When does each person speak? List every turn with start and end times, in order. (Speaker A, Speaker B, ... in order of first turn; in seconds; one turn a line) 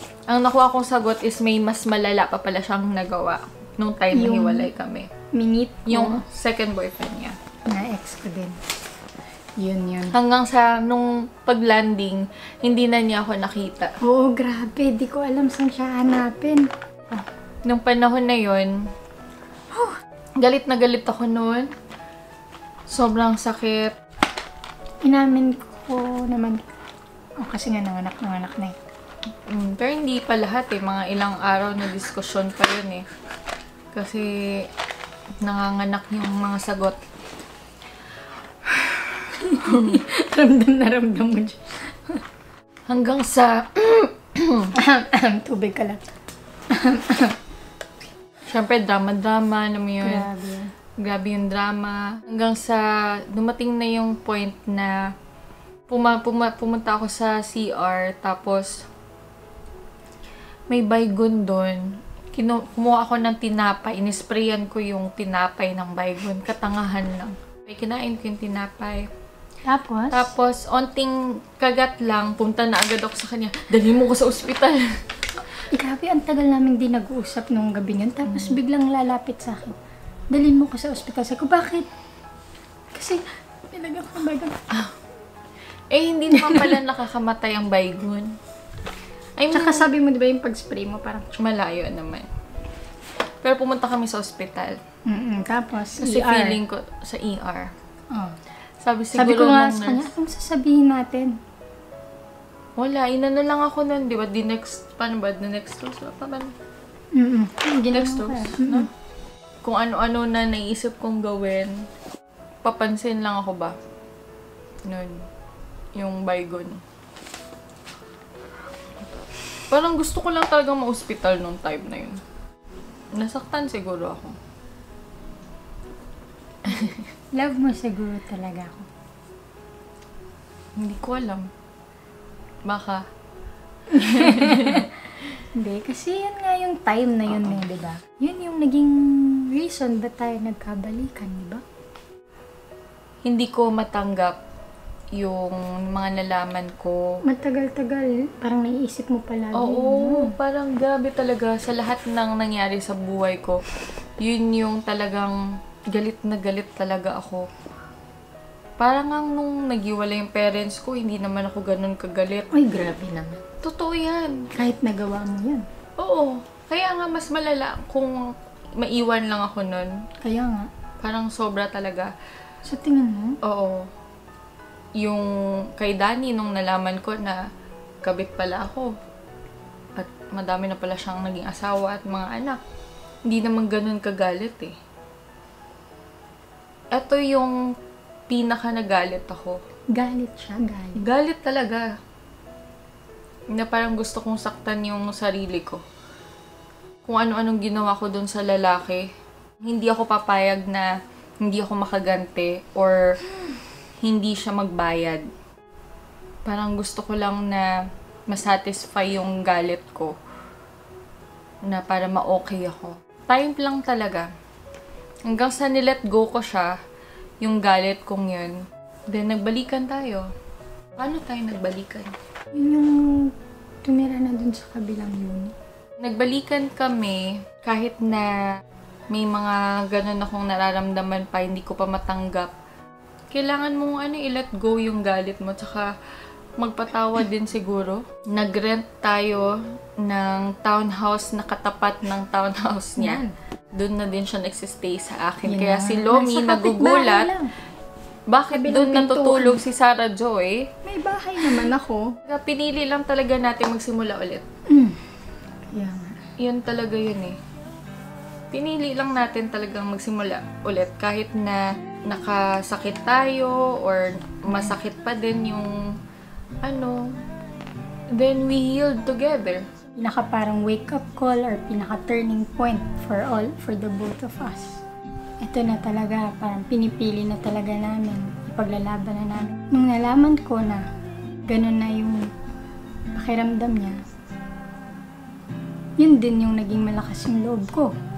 Speaker A: 0.3-5.1
Speaker B: 4.1-4.7
Speaker B: 5.3-6.2
Speaker A: 5.9-7.4
Speaker B: 7.7-8.6
Speaker B: 9.6-10.2
Speaker A: 10.1-13.9
Speaker B: 14.0-17.3
Speaker A: 17.7-18.9
Speaker A: 20.4-21.7
Speaker A: 22.9-24.0
Speaker B: 25.0-26.6
Speaker B: 27.4-28.8
Speaker A: 29.5-33.1
Speaker A: 33.9-34.7
Speaker A: 35.4-37.0
Speaker B: 38.7-42.2
Speaker A: 39.6-40.0
Speaker A: 42.9-44.7
Speaker B: 44.8-46.0
Speaker B: 46.7-47.4
Speaker A: 48.5-50.3
Speaker B: 50.0-50.7
Speaker A: 51.0-55.0
Speaker A: 55.9-58.8
Speaker A: 60.7-69.1
Speaker B: 69.7-70.3
Speaker A: 70.1-75.0
Speaker B: 75.7-79.8
Speaker A: 78.3-78.5
Speaker B: 80.3-81.9
Speaker B: 82.9-84.8
Speaker A: 85.9-88.3
Speaker B: 86.3-86.8
Speaker A: 89.4-89.9
Speaker B: 89.5-91.3
Speaker A: 91.4-92.3
Speaker A: 93.4-94.8
Speaker B: 95.1-96.6
Speaker A: 96.0-97.7
Speaker B: 98.1-98.3
Speaker A: 98.8-100.1
Speaker B: 99.1-101.4
Speaker A: 102.8-106.5
Speaker B: 107.1-108.9
Speaker A: 107.9-108.9
Speaker A: 109.6-111.8
Speaker A: 112.6-113.8
Speaker A: 114.9-115.2
Speaker A: 116.0-116.8
Speaker A: 119.7-122.2
Speaker A: 123.2-124.4
Speaker A: 126.7-127.0
Speaker B: 127.3-128.9
Speaker A: 130.8-131.5
Speaker A: 132.7-133.0
Speaker A: 133.9-134.9
Speaker B: 133.9-134.9
Speaker B: 135.6-141.6
Speaker A: 143.2-144.4
Speaker A: 145.2-147.1
Speaker B: 147.3-150.3
Speaker A: 149.5-153.6
Speaker A: 154.2-155.4
Speaker A: 155.9-157.5
Speaker A: 158.8-162.5
Speaker B: 162.5-163.4
Speaker A: 163.6-164.5
Speaker B: 164.5-165.6
Speaker A: 166.0-170.0
Speaker B: 170.2-170.7
Speaker A: 171.0-172.1
Speaker B: 172.6-173.4
Speaker A: 173.4-173.9
Speaker A: 175.0-177.4
Speaker A: 178.0-178.9
Speaker A: 180.0-182.6
Speaker A: 183.3-184.8
Speaker A: 186.9-187.6
Speaker A: 188.3-189.6
Speaker B: 189.9-191.0
Speaker A: 191.0-191.9
Speaker A: 193.5-195.8
Speaker A: 197.1-199.1
Speaker A: 199.7-200.9
Speaker A: 201.4-203.2
Speaker A: 204.0-205.3
Speaker A: 206.5-207.7
Speaker A: 208.3-210.1
Speaker A: 211.7-214.3
Speaker A: 215.3-216.8
Speaker A: 217.4-220.3
Speaker A: 221.0-222.1
Speaker B: 222.5-223.3
Speaker B: 223.8-225.6
Speaker A: 226.0-228.3
Speaker A: 229.1-232.5
Speaker A: 233.3-235.9
Speaker A: 236.6-243.2
Speaker B: 243.0-243.3
Speaker A: 243.8-247.3
Speaker B: 245.4-247.5
Speaker A: 248.3-250.7
Speaker B: 248.5-249.6
Speaker B: 250.8-252.2
Speaker A: 252.2-254.4
Speaker B: 254.7-256.2
Speaker A: 256.4-257.4
Speaker A: 258.5-265.8
Speaker B: 264.5-264.8
Speaker A: 266.6-267.1
Speaker A: 268.1-269.6
Speaker B: 270.0-274.8
Speaker B: 275.4-280.9
Speaker B: 281.5-282.3
Speaker B: 283.1-284.0
Speaker B: 286.0-288.0